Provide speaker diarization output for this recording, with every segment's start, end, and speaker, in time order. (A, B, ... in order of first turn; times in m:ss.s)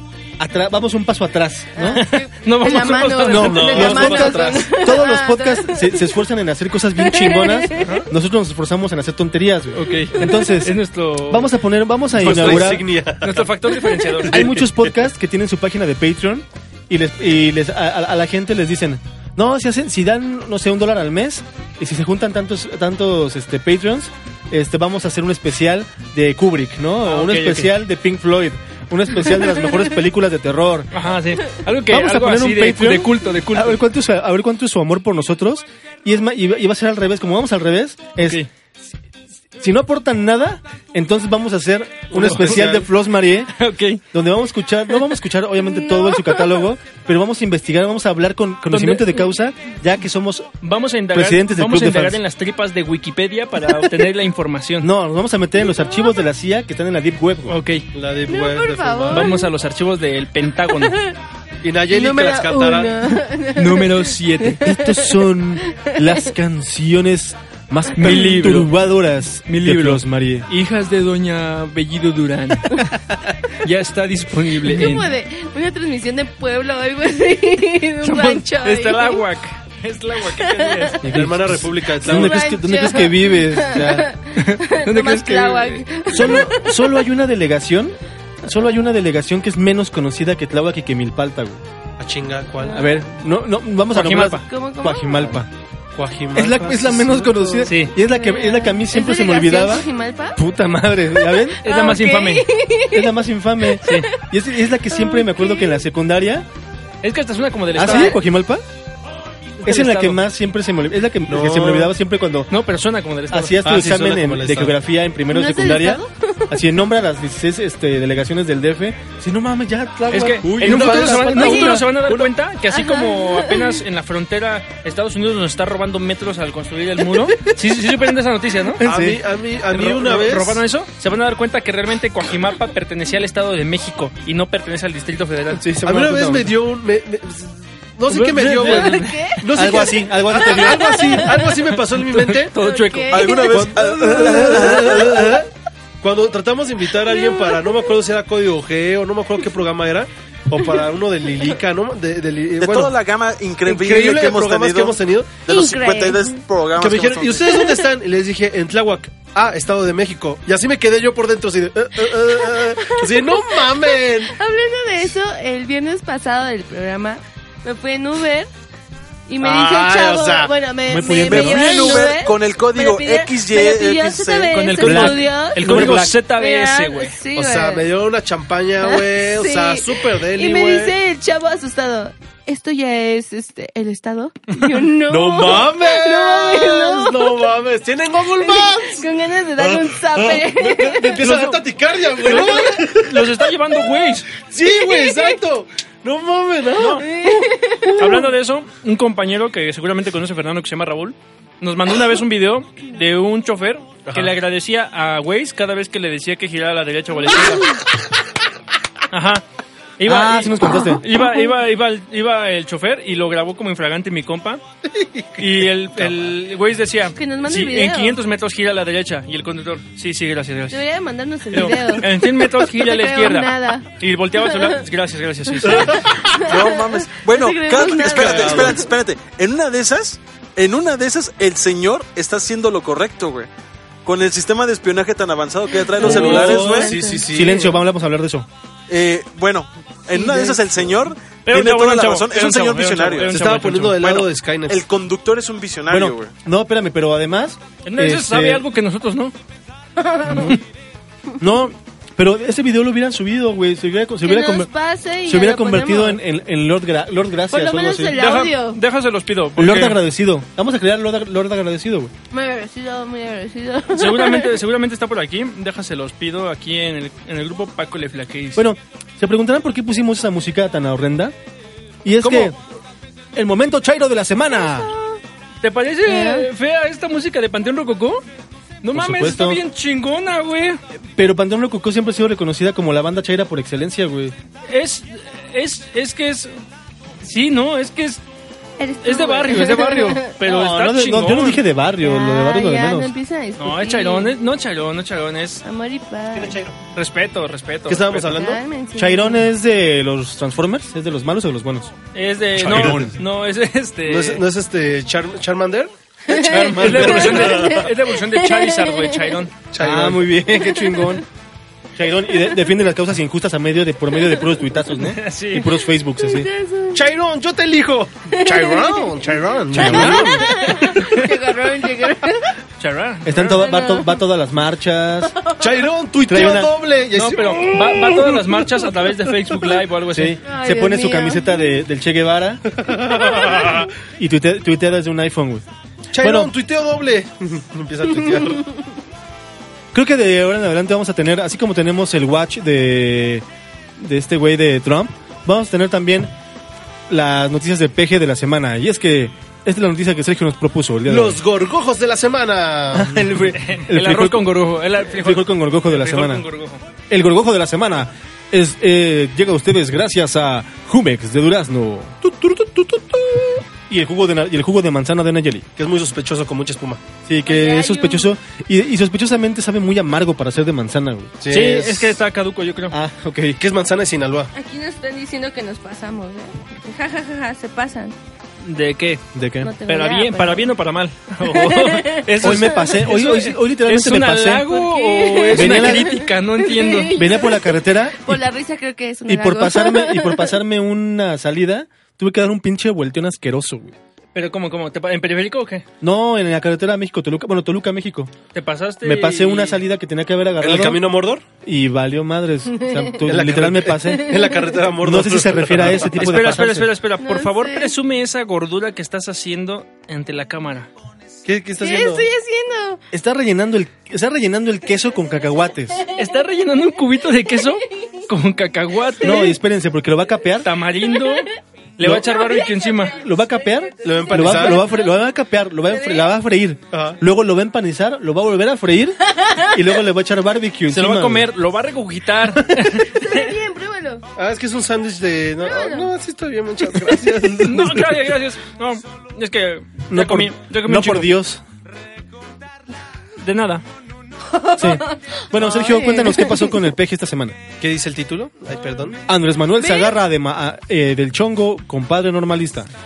0:00.4-0:02.0 A
0:01.8-0:06.2 B
0:01.9-0:03.9 C
0:03.2-0:12.9 A
0:03.3-0:04.7 D
0:07.0-0:07.9 B
0:07.8-0:08.1 C
0:09.7-0:11.6 C
0:12.1-0:15.1 C
0:12.2-0:13.5 D
0:14.3-0:30.9 A
0:27.0-0:27.7 C
0:30.9-0:33.8 C
0:31.9-0:38.4 A
0:38.2-0:38.5 C
0:39.6-0:43.6 A
0:42.1-0:42.9 C
0:43.6-0:44.0 C
0:44.1-0:50.5 A
0:48.7-0:49.1 C
0:50.6-0:54.9 C
0:51.1-0:52.2 A
0:54.8-0:57.6 A
0:57.5-0:57.9 C
0:57.9-0:59.3 D
0:58.3-0:59.5 B
0:59.1-1:01.0 C
1:00.9-1:01.2 B
1:01.6-1:03.1 D
1:01.9-1:05.1 B
1:03.6-1:04.6 C
1:04.6-1:10.5 A
1:05.7-1:06.2 B
1:08.0-1:08.7 C
1:09.5-1:12.8 C
1:13.5-1:15.1 C
1:14.7-1:19.2 B
1:18.0-1:21.1 C
1:20.3-1:21.0 B
1:21.0-1:24.1 A
1:21.1-1:22.5 D
1:22.0-1:26.9 B
1:24.3-1:26.3 C
1:26.1-1:31.6 A
1:32.0-1:32.8 D
1:32.6-1:33.0 B
1:32.7-1:35.5 A
1:33.9-1:34.4 C
1:34.5-1:35.4 B
1:36.0-1:37.6 D
1:36.3-1:41.6 A
1:37.5-1:40.4 B
1:37.7-1:37.9 C
1:41.2-1:43.2 B
1:41.6-1:42.5 C
1:42.9-1:46.5 A
1:43.8-1:44.2 B
1:43.8-1:44.1 C
1:44.9-1:45.7 B
1:47.0-1:48.2 C
1:47.8-1:48.6 A
1:49.6-1:50.2 C
1:49.6-1:52.5 A
1:51.3-1:51.9 D
1:52.5-1:54.0 C
1:53.3-2:01.9 A
1:53.6-1:54.8 D
1:55.3-1:56.6 B
2:00.1-2:08.8 C
2:00.4-2:02.3 D
2:02.7-2:03.8 B
2:08.8-2:09.2 A
2:08.8-2:10.6 D
2:09.7-2:15.6 C
2:15.6-2:16.5 A
2:15.8-2:22.6 D
2:18.1-2:19.2 C
2:18.6-2:21.5 B
2:19.5-2:21.3 A
2:21.9-2:23.4 C
2:22.6-2:25.3 B
2:23.1-2:25.2 E
2:23.5-2:25.5 D
2:24.0-2:24.7 A
2:26.0-2:33.0 D
2:27.1-2:27.9 B
2:32.6-2:37.5 E
2:33.6-2:35.5 D
2:35.5-2:36.4 B
2:36.8-2:44.4 D
2:37.5-2:37.9 B
2:42.1-2:48.5 B
2:49.3-2:57.9 B
2:49.4-2:49.8 E
2:49.5-2:50.5 D
2:50.9-2:52.1 A
2:51.3-2:54.5 E
2:54.5-2:57.2 C
2:54.8-2:56.2 A
2:57.4-3:00.9 D
2:58.8-3:07.6 B
3:05.1-3:09.0 D
3:08.3-3:11.4 B
3:09.6-3:13.3 D
3:11.2-3:11.6 C
3:12.2-3:14.3 C
3:14.4-3:17.1 D
3:14.8-3:15.4 B
3:16.8-3:17.1 C
3:17.0-3:18.2 B
3:18.0-3:27.8 C
3:24.1-3:24.3 D
3:29.1-3:29.5 C
3:30.0-3:34.6 C
3:30.0-3:31.0 A
3:35.0-3:35.3 D
3:35.4-3:40.8 C
3:37.2-3:38.2 B
3:40.7-3:44.8 B
3:41.5-3:46.0 C
3:45.6-3:48.9 B
3:45.9-3:53.5 E
3:48.1-3:48.8 D
3:54.0-3:56.9 E
3:55.8-3:57.3 B
3:56.0-3:57.7 D
3:57.3-3:58.5 A
3:58.9-4:03.3 E
4:00.1-4:00.6 D
4:01.5-4:04.2 C
4:03.3-4:04.8 D
4:04.0-4:06.3 E
4:05.9-4:08.7 A
4:07.8-4:09.4 C
4:10.0-4:10.6 B
4:10.2-4:10.6 C
4:11.4-4:14.7 A
4:14.2-4:16.2 B
4:15.3-4:18.2 A
4:17.5-4:18.8 B
4:18.2-4:20.0 C
4:19.6-4:22.1 A
4:22.3-4:24.5 B
4:23.9-4:28.6 C
4:28.6-4:31.4 A
4:32.0-4:32.6 A
4:33.3-4:35.0 A
4:35.6-4:38.2 C
4:36.1-4:36.5 B
4:38.8-4:40.8 C
4:38.9-4:39.6 A
4:41.0-4:44.4 A
4:44.7-4:46.5 C
4:47.2-4:48.2 C
4:48.8-4:50.3 B
4:49.0-4:51.6 C
4:50.4-4:53.1 A
4:52.0-4:54.4 B
4:53.6-4:55.6 C
4:55.6-4:56.6 B
4:56.3-4:56.8 D
4:57.0-4:58.4 C
4:57.9-4:58.6 D
4:58.2-4:59.5 B
4:59.0-5:01.9 A
5:02.1-5:04.4 C
5:02.6-5:03.2 A
5:02.6-5:03.1 D
5:04.1-5:07.9 D
5:06.3-5:09.4 B
5:06.4-5:09.5 C
5:09.7-5:10.3 D
5:09.8-5:11.2 A
5:10.7-5:11.2 B
5:12.0-5:16.5 A
5:15.1-5:15.7 C
5:16.2-5:17.0 B
5:16.9-5:20.5 D
5:18.3-5:19.1 B
5:19.7-5:20.5 A
5:19.8-5:22.6 B
5:19.8-5:21.3 C
5:22.8-5:23.6 C
5:23.2-5:25.4 A
5:23.6-5:24.2 B
5:25.4-5:25.7 B
5:25.6-5:28.4 D
5:26.2-5:26.7 A
5:27.1-5:30.4 C
5:30.1-5:32.6 A
5:30.4-5:31.6 B
5:32.8-5:33.9 D
5:34.2-5:35.6 A
5:36.1-5:38.6 D
5:36.2-5:36.5 A
5:39.9-5:43.5 A
5:44.0-5:46.3 A
5:47.1-5:51.4 A
5:51.1-5:53.2 D
5:52.9-5:56.4 A
5:53.5-5:56.8 C
5:57.1-6:05.7 A
6:05.8-6:07.0 D
6:07.3-6:11.4 A
6:07.5-6:08.3 B
6:11.4-6:12.1 D
6:11.5-6:13.0 C
6:12.9-6:13.6 A
6:13.6-6:14.5 D
6:14.5-6:18.2 B
6:18.6-6:19.2 C
6:19.3-6:19.7 A
6:19.6-6:20.7 B
6:19.8-6:27.2 C
6:21.4-6:22.2 B
6:22.4-6:24.8 A
6:24.8-6:30.6 B
6:25.5-6:26.2 A
6:27.1-6:28.4 A
6:29.3-6:34.0 A
6:34.4-6:35.9 C
6:36.0-6:38.3 A
6:38.5-6:39.8 C
6:39.0-6:41.0 A
6:40.6-6:41.5 D
6:41.6-6:44.4 A
6:42.8-6:43.2 B
6:43.2-6:46.1 D
6:44.2-6:44.7 B
6:45.0-6:46.9 A
6:46.2-6:50.9 C
6:47.2-6:47.9 B
6:51.4-6:52.3 D
6:51.8-6:53.0 B
6:53.1-6:56.0 A
6:56.2-6:59.5 C
6:57.6-6:58.1 B
6:59.2-7:00.7 A
6:59.2-6:59.5 B
7:00.6-7:03.2 C
7:01.2-7:01.4 B
7:02.0-7:02.3 A
7:02.4-7:02.8 B
7:03.2-7:11.5 A
7:04.0-7:04.8 D
7:05.9-7:06.3 B
7:06.9-7:07.2 D
7:09.3-7:09.8 B
7:10.9-7:13.5 C
7:13.1-7:14.2 B
7:14.4-7:18.2 D
7:15.6-7:16.1 B
7:17.6-7:21.4 C
7:20.1-7:21.6 A
7:23.4-7:23.8 C
7:24.5-7:26.8 B
7:24.8-7:27.6 A
7:27.8-7:29.2 D
7:29.3-7:32.9 A
7:29.8-7:30.2 B